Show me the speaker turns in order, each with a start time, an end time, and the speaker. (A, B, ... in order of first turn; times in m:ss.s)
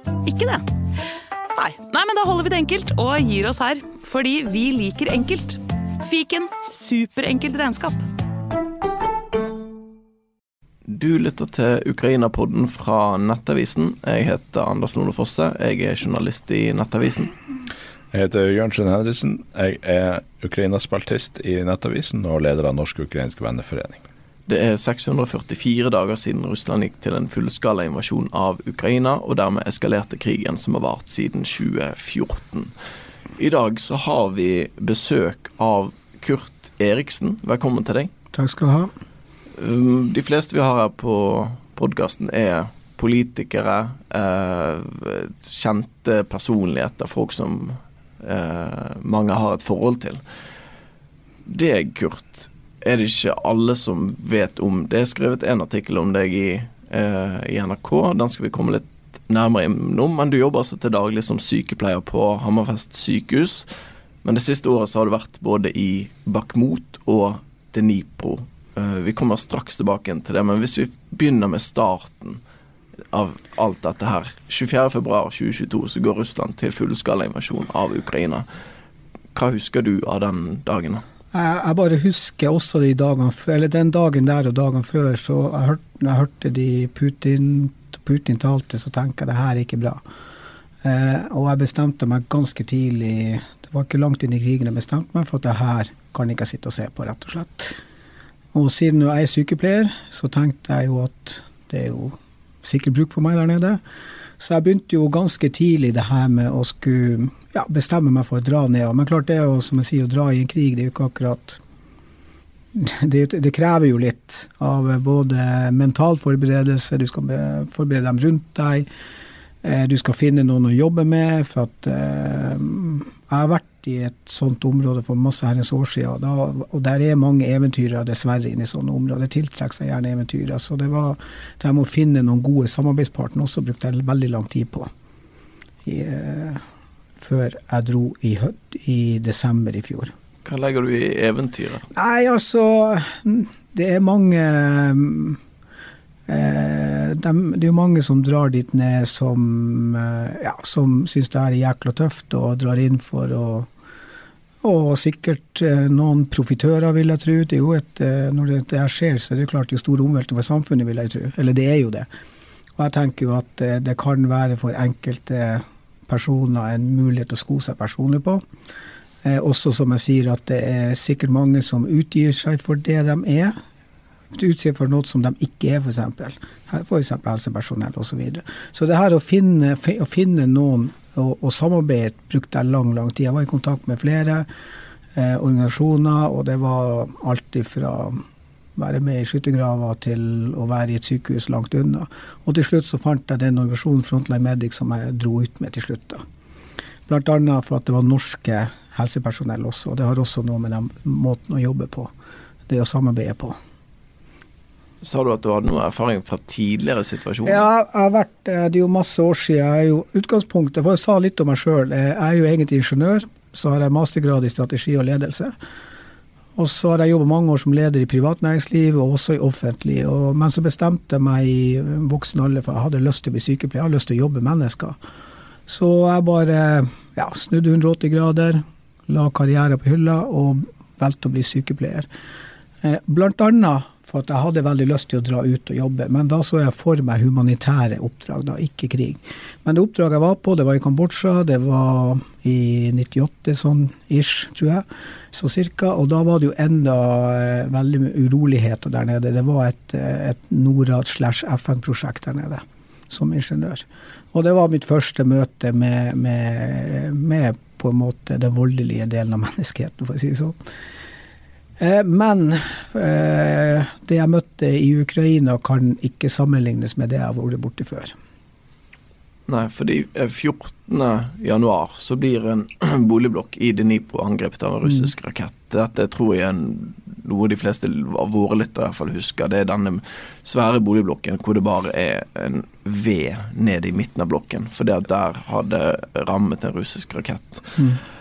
0:00.2-0:00.6 A
0:01.6-0:08.0 A
0:10.9-0:17.3 B
0:18.1-0:24.0 C
0:24.5-0:32.7 B
0:33.4-0:38.1 B
0:38.3-0:38.9 D
0:39.6-0:50.2 B
0:51.5-1:03.7 B
1:04.2-1:12.4 B
1:13.1-1:18.4 B
1:19.3-1:21.0 B
1:21.3-1:30.0 D
1:30.8-1:37.8 D
1:38.5-1:43.8 D
1:44.4-1:51.6 D
1:52.7-1:58.9 D
1:59.6-2:14.9 D
2:15.8-2:16.6 D
2:17.2-2:20.1 D
2:20.4-2:21.9 B
2:21.9-2:25.4 D
2:26.3-2:33.7 D
2:34.6-2:42.1 D
2:42.8-2:48.4 D
2:49.2-2:53.6 D
2:54.3-3:04.5 D
3:05.2-3:08.2 D
3:08.8-3:16.2 D
3:17.1-3:22.1 D
3:22.7-3:23.6 D
3:25.0-3:27.6 B
3:27.4-3:35.5 D
3:36.6-3:45.0 D
3:45.7-3:52.1 D
3:52.8-4:20.6 D
4:21.8-4:28.2 D
4:29.5-4:47.8 B